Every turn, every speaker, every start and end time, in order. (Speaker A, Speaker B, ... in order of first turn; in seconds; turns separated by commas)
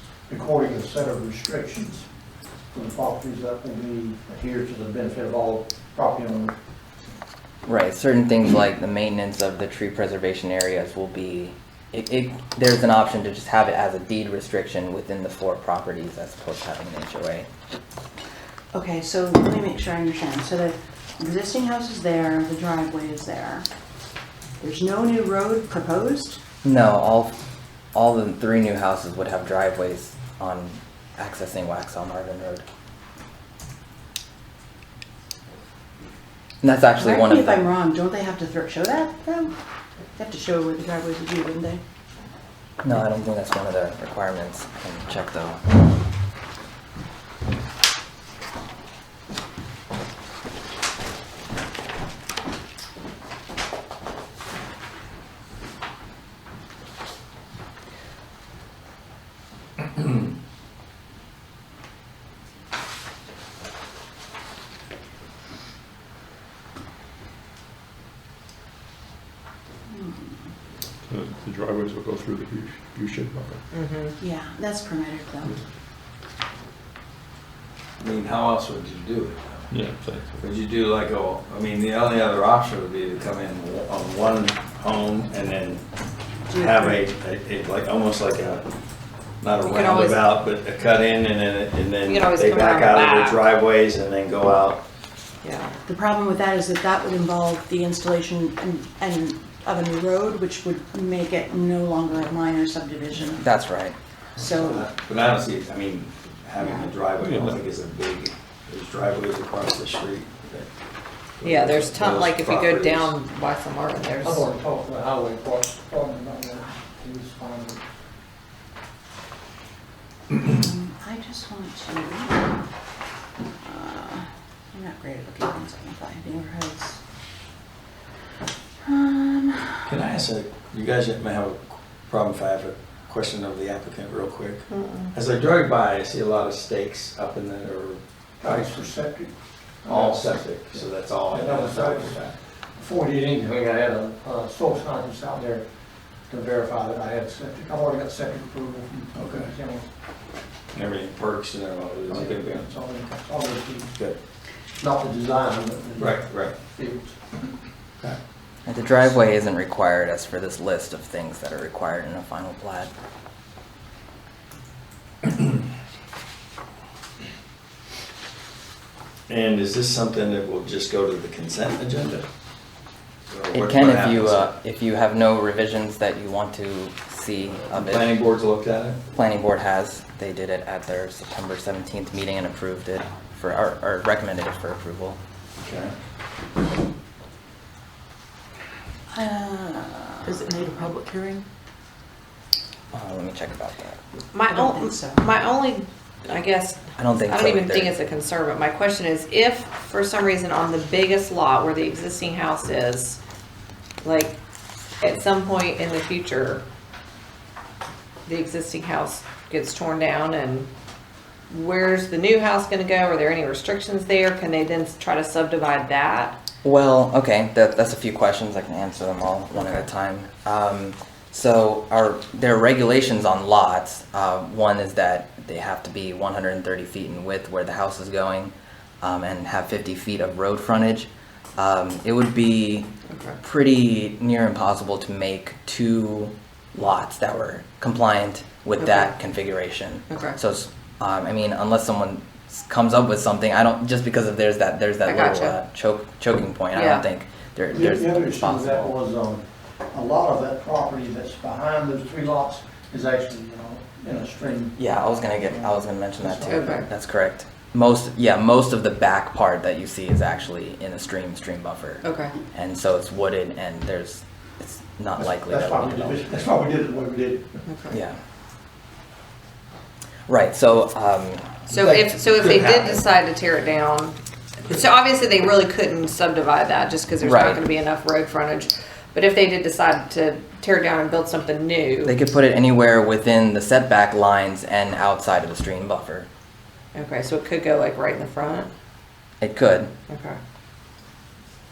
Speaker A: 0.3-2.0, Speaker A: 2.7-6.5, Speaker B: 7.7-17.5, Speaker C: 18.7-23.7, Speaker C: 24.6-26.4, Speaker B: 26.6-27.3, Speaker B: 27.9-32.6, Speaker B: 36.6-37.7, Speaker C: 37.0-39.5, Speaker C: 40.1-41.8, Speaker B: 42.8-45.6, Speaker C: 69.9-70.4, Speaker D: 71.0-73.6, Speaker E: 73.7-74.1, Speaker C: 74.2-75.5, Speaker F: 78.0-79.7, Speaker D: 79.7-80.4, Speaker F: 80.4-85.8, Speaker C: 86.5-87.0, Speaker F: 86.5-88.7, Speaker F: 89.4-94.8, Speaker E: 89.6-90.2, Speaker E: 92.0-93.4, Speaker E: 95.4-95.8, Speaker C: 95.8-103.4, Speaker B: 103.3-104.0, Speaker C: 104.4-104.9, Speaker F: 104.4-110.7, Speaker C: 106.6-106.9, Speaker D: 107.2-107.6, Speaker F: 111.4-113.1, Speaker E: 111.4-114.5, Speaker A: 114.2-117.8, Speaker C: 120.3-122.5, Speaker C: 123.6-127.0, Speaker C: 128.8-129.9, Speaker F: 129.8-138.8, Speaker E: 134.7-135.1, Speaker A: 138.4-139.3, Speaker A: 139.8-142.2, Speaker F: 139.9-142.3, Speaker A: 142.8-145.6, Speaker A: 146.3-149.8, Speaker F: 149.1-149.5, Speaker F: 150.7-152.7, Speaker A: 152.1-153.9, Speaker A: 154.8-157.4, Speaker F: 156.0-156.5, Speaker B: 158.7-162.9, Speaker F: 169.3-172.2, Speaker F: 173.3-174.5, Speaker B: 173.5-178.2, Speaker F: 177.6-179.0, Speaker B: 179.1-185.2, Speaker F: 185.6-185.9, Speaker C: 189.1-191.4, Speaker B: 192.9-194.0, Speaker E: 194.3-203.2, Speaker C: 194.4-195.2, Speaker B: 197.0-198.0, Speaker E: 204.0-204.4, Speaker E: 205.0-206.6, Speaker E: 208.2-210.7, Speaker E: 211.5-216.4, Speaker B: 216.6-232.9, Speaker E: 219.6-219.8, Speaker E: 233.1-233.4, Speaker B: 233.4-248.9, Speaker E: 238.8-239.1, Speaker E: 240.1-240.4, Speaker E: 245.0-245.6, Speaker E: 246.7-247.0, Speaker A: 247.7-254.8, Speaker B: 254.7-266.2, Speaker A: 255.3-256.9, Speaker E: 256.5-256.9, Speaker E: 262.0-262.3, Speaker A: 265.2-267.6, Speaker E: 267.7-268.0, Speaker B: 267.9-268.2, Speaker B: 270.3-271.7, Speaker F: 271.7-273.0, Speaker E: 271.7-282.1, Speaker B: 277.2-277.6, Speaker B: 282.0-286.3, Speaker E: 286.9-288.7, Speaker B: 289.4-289.9, Speaker E: 290.1-290.4